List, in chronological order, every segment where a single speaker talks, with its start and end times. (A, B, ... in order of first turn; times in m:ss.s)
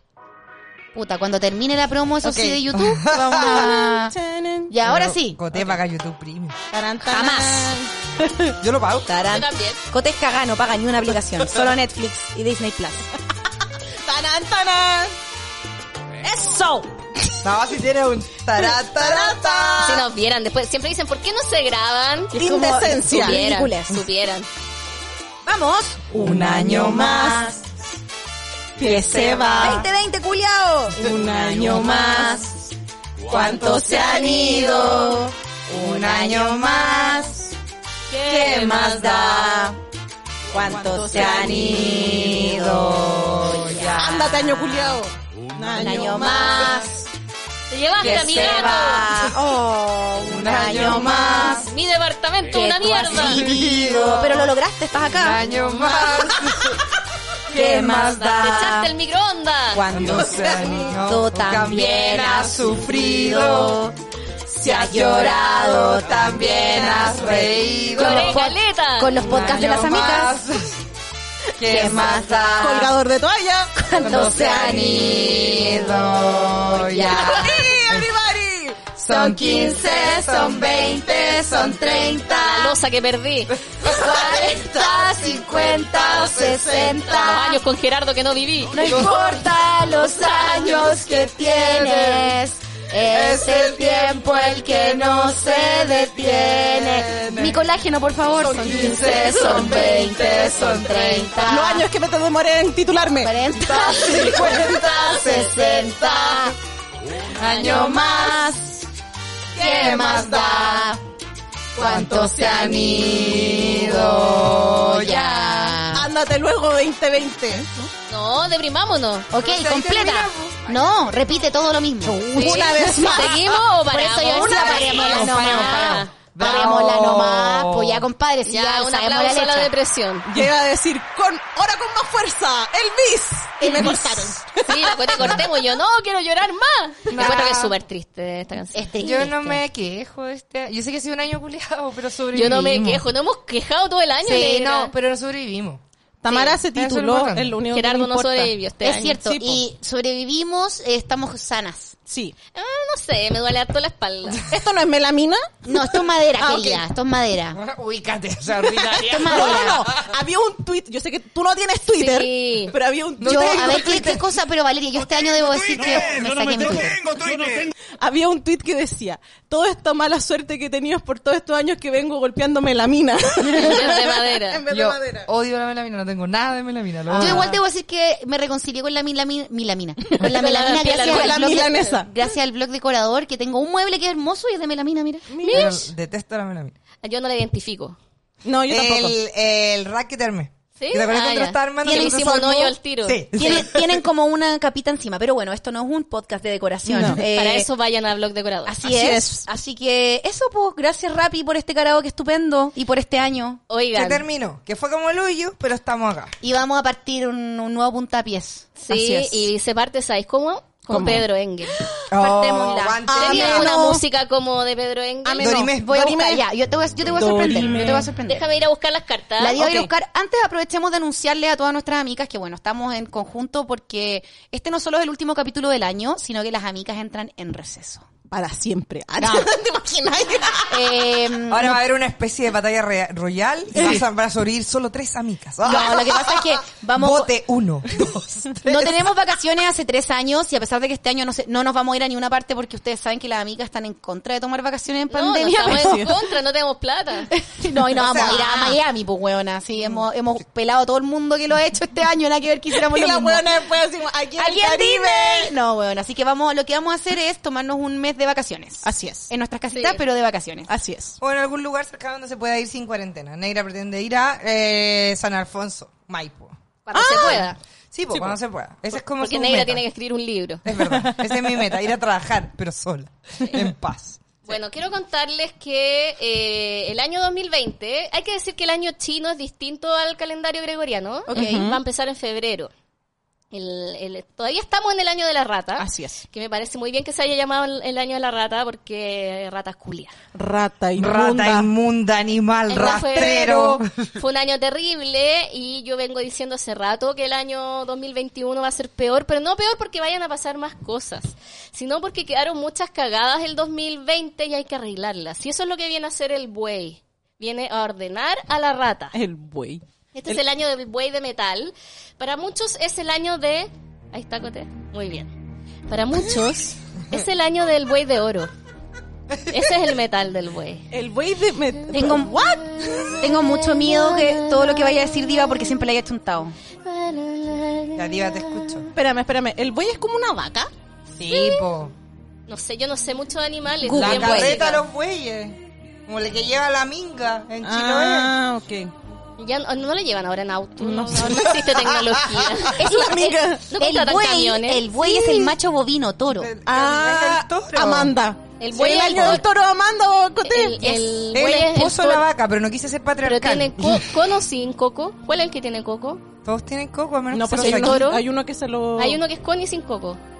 0:00.9-0:04.1 A
0:02.2-0:03.8 B
0:03.4-0:04.7 C
0:04.7-0:05.4 A
0:04.8-0:06.6 B
0:06.7-0:07.9 C
0:07.0-0:08.5 A
0:08.6-0:09.2 B
0:09.1-0:13.0 A
0:09.2-0:09.8 D
0:14.0-0:15.1 C
0:16.2-0:16.9 A
0:17.4-0:20.0 B
0:18.6-0:20.0 C
0:19.8-0:22.4 D
0:22.3-0:23.4 C
0:22.3-0:24.0 A
0:23.1-0:24.5 D
0:25.4-0:26.1 A
0:26.1-0:27.5 B
0:26.3-0:27.4 C
0:26.6-0:27.6 A
0:28.8-0:29.8 C
0:28.8-0:29.9 B
0:29.6-0:32.7 A
0:31.0-0:32.4 C
0:33.3-0:37.4 B
0:33.3-0:37.5 A
0:33.4-0:34.7 C
0:38.1-0:39.1 D
0:38.3-0:39.7 B
0:38.3-0:39.8 A
0:40.5-0:45.0 A
0:40.5-0:44.4 B
0:40.6-0:41.8 C
0:43.9-0:46.9 C
0:45.7-0:47.0 A
0:47.7-0:49.1 D
0:48.0-0:51.7 A
0:48.1-0:48.6 B
0:50.2-0:51.7 B
0:51.4-0:53.4 D
0:52.5-0:55.5 A
0:53.1-0:56.8 B
0:57.5-0:58.8 B
0:57.5-0:58.9 A
0:58.4-0:59.8 D
0:59.7-1:03.9 A
0:59.8-1:03.9 B
1:04.5-1:10.3 A
1:04.6-1:08.5 B
1:07.9-1:09.2 D
1:09.2-1:10.7 B
1:11.6-1:12.9 B
1:11.6-1:12.9 A
1:12.6-1:13.9 C
1:13.8-1:15.9 A
1:14.0-1:18.1 B
1:16.7-1:17.7 A
1:17.1-1:18.9 C
1:19.0-1:22.3 B
1:19.0-1:22.8 A
1:22.3-1:23.6 D
1:23.6-1:27.1 B
1:23.8-1:27.6 A
1:27.1-1:28.9 D
1:28.7-1:41.9 A
1:28.7-1:32.4 B
1:33.0-1:37.6 B
1:38.4-1:41.4 B
1:41.4-1:43.4 C
1:43.2-1:46.5 A
1:43.6-1:46.5 B
1:47.3-1:48.5 B
1:47.4-1:48.8 A
1:49.5-1:50.9 B
1:49.6-1:51.0 A
1:51.7-1:55.8 B
1:51.7-1:56.0 A
1:55.9-1:57.7 C
1:58.1-1:59.3 D
1:59.3-2:09.7 A
1:59.3-2:01.5 B
2:02.0-2:02.4 B
2:02.3-2:06.1 D
2:02.3-2:03.4 C
2:04.4-2:08.1 B
2:08.4-2:10.2 D
2:10.3-2:15.4 C
2:13.6-2:14.4 A
2:14.6-2:19.2 D
2:15.2-2:15.4 B
2:17.1-2:17.7 B
2:18.7-2:19.6 A
2:19.0-2:23.0 B
2:22.3-2:24.9 D
2:24.3-2:25.8 B
2:26.2-2:28.5 C
2:26.3-2:26.6 D
2:26.7-2:27.6 B
2:27.7-2:29.2 D
2:28.8-2:32.0 A
2:29.1-2:29.6 C
2:32.1-2:32.3 C
2:32.5-2:34.4 D
2:34.5-2:36.8 C
2:35.6-2:37.6 A
2:37.5-2:40.1 B
2:38.8-2:44.2 C
2:38.9-2:39.8 A
2:41.9-2:42.7 D
2:43.2-2:44.3 B
2:43.2-2:47.0 A
2:47.1-2:47.5 B
2:48.0-2:55.3 C
2:53.5-2:54.6 D
2:54.7-2:57.6 B
2:57.1-2:57.5 C
2:57.1-3:05.3 A
3:00.2-3:01.9 D
3:00.8-3:02.1 C
3:05.3-3:05.8 C
3:05.4-3:05.8 D
3:05.5-3:06.7 B
3:07.0-3:08.0 D
3:08.4-3:09.2 C
3:08.7-3:14.0 B
3:10.8-3:13.3 D
3:11.8-3:12.2 A
3:13.3-3:17.7 A
3:16.8-3:17.2 C
3:17.1-3:18.7 D
3:18.6-3:23.6 A
3:18.8-3:19.4 C
3:23.7-3:24.2 D
3:23.9-3:26.4 B
3:26.4-3:28.8 A
3:28.8-3:31.8 D
3:28.9-3:29.5 C
3:30.9-3:31.2 C
3:32.1-3:33.7 B
3:32.1-3:33.7 A
3:33.1-3:34.0 C
3:33.2-3:35.5 D
3:35.2-3:36.4 C
3:35.4-3:36.2 B
3:35.7-3:38.5 A
3:37.1-3:38.1 C
3:38.2-3:39.6 D
3:39.4-3:48.0 A
3:39.6-3:39.9 C
3:48.3-3:51.1 C
3:49.2-3:49.5 A
3:50.7-3:51.8 A
3:51.5-3:59.1 B
3:55.6-3:57.3 A
3:58.6-4:06.0 A
4:05.1-4:07.3 D
4:05.5-4:06.2 C
4:07.3-4:13.4 A
4:08.0-4:08.5 B
4:08.2-4:08.8 D
4:12.7-4:15.6 C
4:14.4-4:20.7 A
4:18.8-4:19.3 C
4:19.7-4:20.0 D
4:20.7-4:21.2 C
4:21.2-4:26.5 B
4:26.8-4:27.6 D
4:26.9-4:27.5 C
4:27.9-4:29.8 B
4:29.0-4:30.6 D
4:30.6-4:34.2 B
4:30.8-4:31.6 C
4:34.4-4:42.7 D
4:41.3-4:41.6 A
4:41.3-4:41.8 C
4:43.5-4:50.1 D
4:45.8-4:46.2 C
4:50.3-4:51.7 C
4:51.0-4:54.1 B
4:52.7-5:09.2 D
5:09.1-5:10.4 C
5:10.1-5:15.3 D
5:15.9-5:18.5 D
5:19.5-5:20.9 D
5:20.9-5:23.3 C
5:21.9-5:22.4 A
5:23.2-5:26.5 A
5:23.8-5:24.9 D
5:26.8-5:28.8 D
5:28.0-5:28.9 B
5:28.9-5:30.7 C
5:31.2-5:31.9 B
5:31.2-5:31.6 D
5:32.5-5:34.8 D
5:33.8-5:34.6 A
5:33.9-5:38.4 B
5:37.6-5:38.9 C
5:39.4-5:42.8 D
5:40.8-5:41.9 C
5:42.7-5:43.6 C
5:42.8-5:46.5 A
5:43.7-5:44.9 D
5:45.0-5:45.5 C
5:46.3-5:48.1 B
5:46.6-5:51.0 C
5:48.6-5:49.4 D
5:50.4-5:52.2 D
5:51.3-5:54.1 B
5:53.2-5:56.2 D
5:56.4-5:58.1 B
5:57.3-5:59.2 C
5:57.6-5:58.2 D
5:59.0-6:00.2 D